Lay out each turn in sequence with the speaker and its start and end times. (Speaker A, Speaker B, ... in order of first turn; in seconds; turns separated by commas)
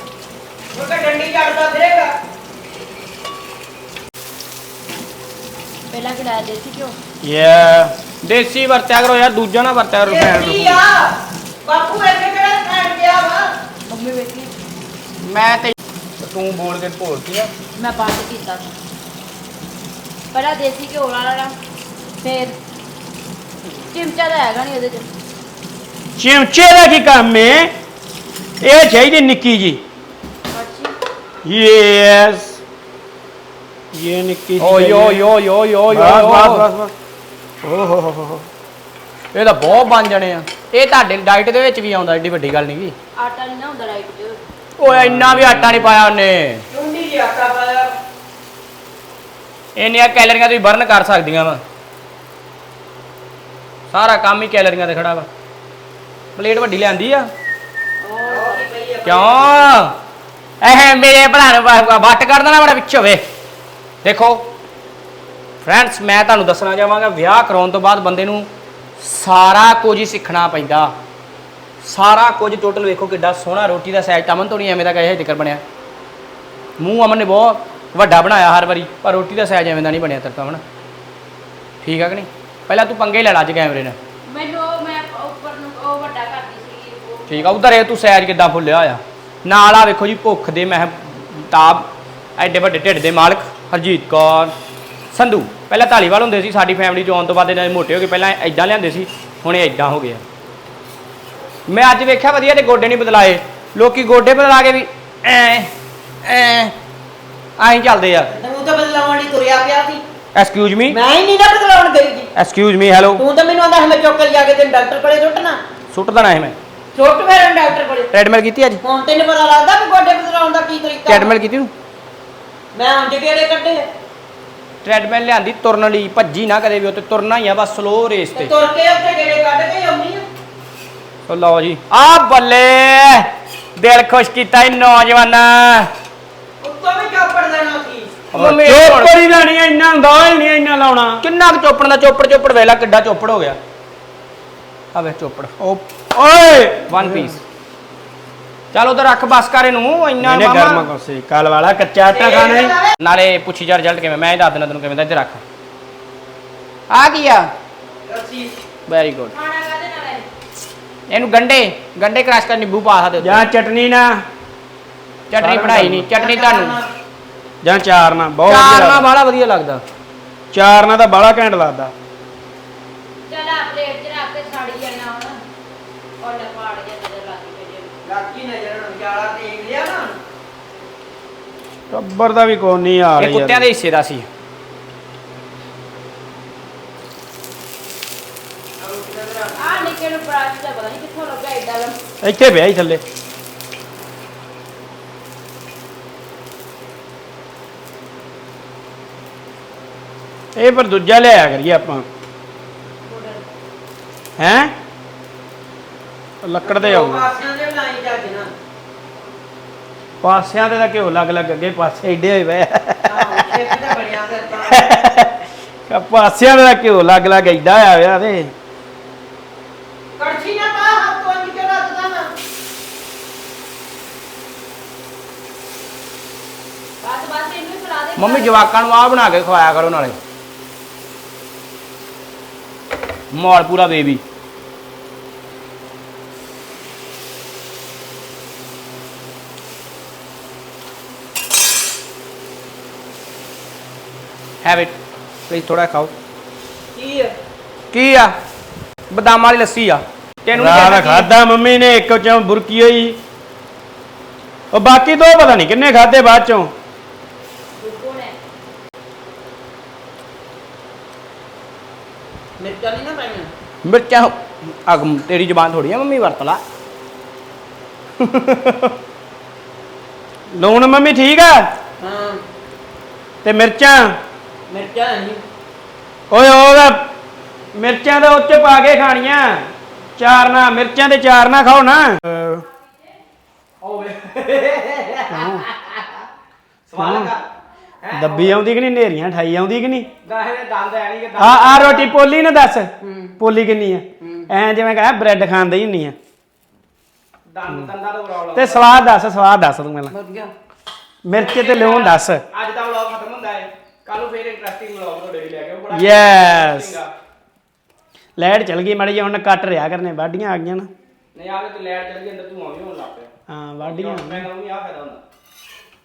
Speaker A: 0.7-2.1, Speaker B: 5.9-7.0, Speaker C: 7.2-7.9, Speaker D: 8.2-10.8, Speaker A: 10.0-11.1, Speaker A: 11.6-13.5, Speaker B: 13.9-14.5, Speaker D: 15.2-17.5, Speaker B: 17.8-18.7, Speaker B: 20.3-21.6, Speaker B: 22.2-22.6, Speaker B: 23.9-25.0, Speaker C: 26.2-27.7, Speaker C: 28.6-29.8, Speaker B: 30.5-30.9, Speaker C: 31.4-32.6, Speaker C: 33.9-35.3, Speaker D: 34.6-36.7, Speaker C: 35.9-36.9, Speaker C: 37.6-38.5, Speaker D: 39.3-42.9, Speaker B: 43.1-44.4, Speaker D: 44.8-46.6, Speaker C: 44.9-45.9, Speaker A: 46.7-47.9, Speaker D: 49.8-51.6, Speaker D: 53.9-55.3, Speaker D: 56.4-57.3, Speaker B: 58.0-58.6, Speaker A: 58.2-59.8, Speaker D: 59.0-59.9, Speaker D: 60.6-63.2, Speaker D: 64.0-64.5, Speaker D: 65.6-68.5, Speaker D: 69.0-70.9, Speaker D: 71.8-75.6, Speaker D: 76.8-80.6, Speaker D: 81.8-84.0, Speaker B: 84.2-87.6, Speaker D: 87.3-94.5, Speaker D: 95.1-100.2, Speaker D: 101.7-105.7, Speaker D: 106.2-106.7, Speaker D: 107.6-108.3, Speaker A: 108.3-110.0, Speaker D: 110.3-111.0, Speaker A: 110.9-112.3, Speaker D: 112.3-113.2, Speaker A: 113.2-115.6, Speaker D: 115.9-116.5, Speaker A: 116.9-118.1, Speaker D: 118.1-118.8, Speaker A: 118.8-121.3, Speaker D: 121.1-121.7, Speaker A: 122.7-123.9, Speaker D: 124.8-128.5, Speaker A: 128.3-130.2, Speaker D: 131.3-135.9, Speaker A: 136.6-138.1, Speaker D: 138.3-139.2, Speaker C: 138.3-141.2, Speaker D: 141.2-143.6, Speaker D: 144.9-145.5, Speaker C: 145.6-147.4, Speaker D: 146.9-147.4, Speaker D: 148.7-150.9, Speaker C: 150.2-152.7, Speaker A: 152.1-152.9, Speaker D: 153.0-155.4, Speaker D: 156.9-157.5, Speaker A: 158.1-158.5, Speaker D: 158.9-159.3, Speaker B: 159.3-160.2, Speaker D: 161.1-163.4, Speaker C: 163.2-164.2, Speaker D: 165.3-166.8, Speaker C: 165.4-166.1, Speaker A: 166.1-166.9, Speaker C: 167.6-169.1, Speaker D: 168.4-169.8, Speaker C: 170.5-171.9, Speaker B: 173.3-175.4, Speaker B: 176.2-177.9, Speaker A: 178.0-180.2, Speaker C: 181.9-183.7, Speaker D: 183.2-184.3, Speaker A: 188.8-189.9, Speaker B: 189.6-192.0, Speaker C: 192.2-193.0, Speaker C: 200.6-202.1, Speaker A: 203.1-203.4, Speaker C: 204.4-204.7, Speaker C: 206.4-207.2, Speaker A: 206.6-208.5, Speaker C: 210.2-213.6, Speaker A: 213.0-214.9, Speaker C: 214.7-218.5, Speaker A: 220.2-222.3, Speaker B: 227.0-228.7, Speaker D: 228.2-230.2, Speaker D: 233.3-234.2, Speaker D: 244.6-244.9, Speaker D: 245.5-246.1, Speaker A: 246.9-247.3, Speaker D: 247.9-248.3, Speaker D: 249.1-251.3, Speaker C: 250.5-253.2, Speaker C: 254.7-256.7, Speaker B: 257.8-258.3, Speaker A: 262.6-263.5, Speaker D: 263.8-266.6, Speaker D: 268.2-268.9, Speaker C: 270.5-271.7, Speaker A: 272.0-272.4, Speaker C: 273.4-274.1, Speaker A: 274.7-275.4, Speaker C: 276.3-277.0, Speaker C: 277.7-282.6, Speaker D: 283.8-286.2, Speaker C: 285.3-285.6, Speaker D: 286.9-287.4, Speaker C: 286.9-287.3, Speaker D: 288.0-288.6, Speaker C: 288.1-290.1, Speaker D: 290.2-292.1, Speaker C: 291.4-296.1, Speaker A: 293.0-293.3, Speaker A: 294.2-294.4, Speaker D: 297.5-298.8, Speaker C: 298.5-300.1, Speaker A: 300.1-300.5, Speaker C: 301.2-302.4, Speaker D: 301.3-307.1, Speaker C: 305.9-307.0, Speaker C: 308.4-310.9, Speaker D: 311.3-315.2, Speaker C: 313.5-314.5